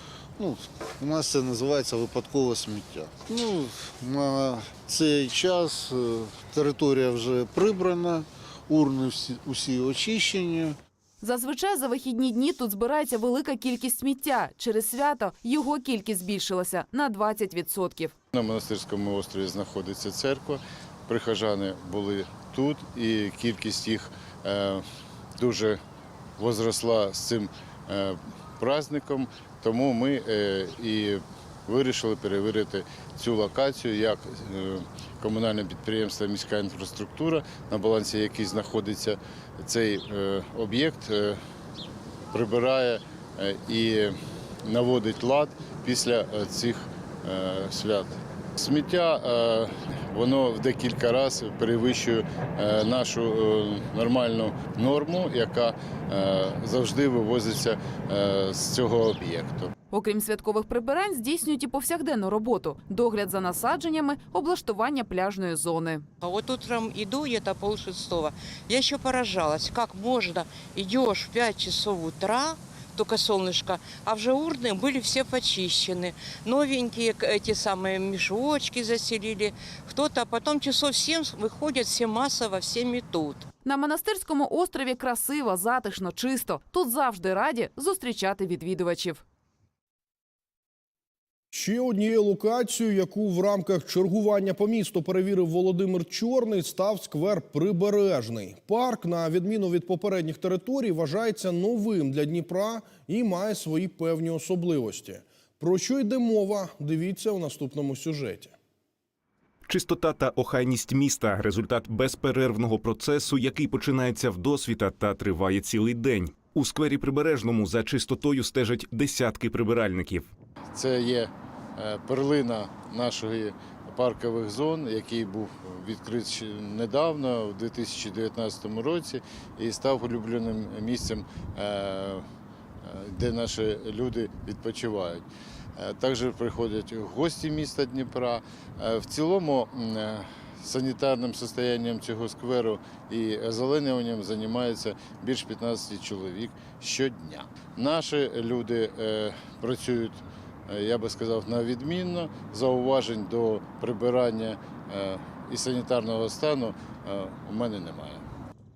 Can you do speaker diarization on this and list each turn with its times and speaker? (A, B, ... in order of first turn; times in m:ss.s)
0:00.4-0:10.8 A
0:11.2-0:18.1 B
0:18.3-0:24.8 C
0:25.4-0:25.8 C
0:26.4-0:41.4 C
0:42.3-0:59.7 C
0:59.9-1:06.0 B
1:06.2-1:23.4 D
1:23.6-1:29.2 B
1:31.5-1:48.5 E
1:49.6-2:00.3 F
2:00.7-2:12.2 C
2:12.8-2:15.2 C
2:15.8-2:38.2 C